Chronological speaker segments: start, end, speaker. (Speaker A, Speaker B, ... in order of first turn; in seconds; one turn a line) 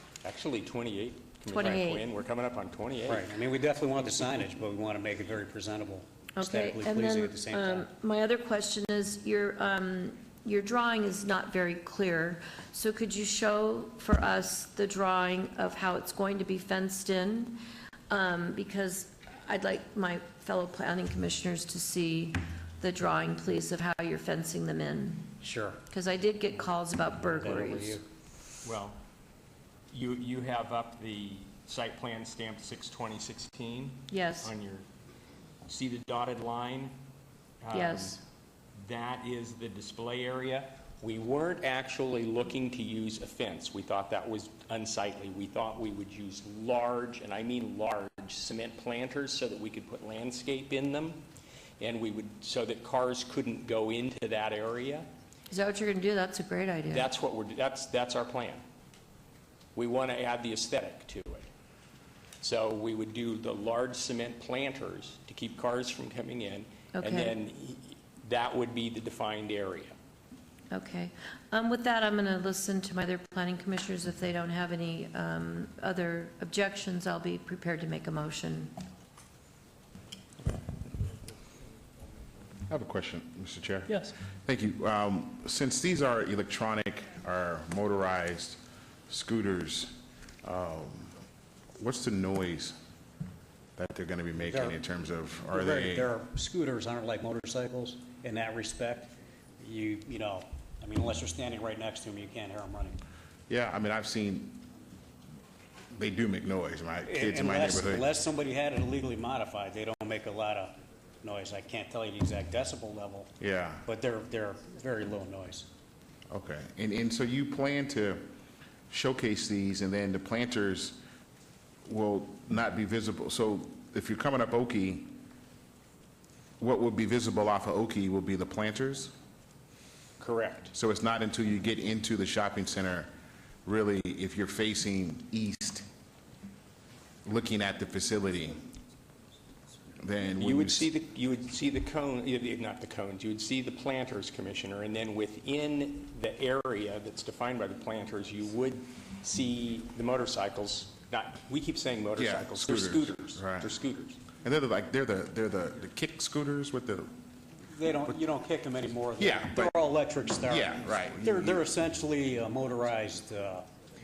Speaker A: 0.2-3.3
Speaker B: 1.5-2.1
Speaker C: 3.1-7.9
Speaker B: 6.4-17.6
Speaker B: 18.1-25.3
Speaker C: 25.4-25.8
Speaker B: 25.9-28.0
Speaker C: 27.2-28.0
Speaker A: 28.6-29.0
Speaker A: 29.9-34.8
Speaker B: 34.1-34.5
Speaker A: 35.6-37.0
Speaker A: 37.6-38.2
Speaker B: 37.7-38.2
Speaker A: 38.8-51.2
Speaker A: 51.8-55.1
Speaker B: 55.5-57.1
Speaker A: 56.9-58.6
Speaker A: 59.7-61.5
Speaker A: 62.4-69.9
Speaker B: 67.0-67.3
Speaker B: 70.7-78.8
Speaker D: 82.7-91.1
Speaker D: 91.8-92.8
Speaker D: 93.8-96.1
Speaker C: 94.4-94.8
Speaker C: 95.5-103.0
Speaker D: 103.5-104.7
Speaker D: 105.9-108.1
Speaker C: 107.0-113.3
Speaker D: 113.4-113.8
Speaker C: 113.8-115.7
Speaker D: 116.3-118.3
Speaker D: 118.9-121.0
Speaker D: 121.8-125.2
Speaker D: 126.6-129.1
Speaker A: 130.2-130.7
Speaker D: 130.7-133.1
Speaker D: 133.6-135.9
Speaker D: 137.2-138.6
Speaker D: 140.0-140.9
Speaker A: 140.4-154.2
Speaker D: 152.2-153.7
Speaker D: 154.4-157.1
Speaker C: 157.7-163.7
Speaker D: 159.2-159.7
Speaker D: 160.4-161.6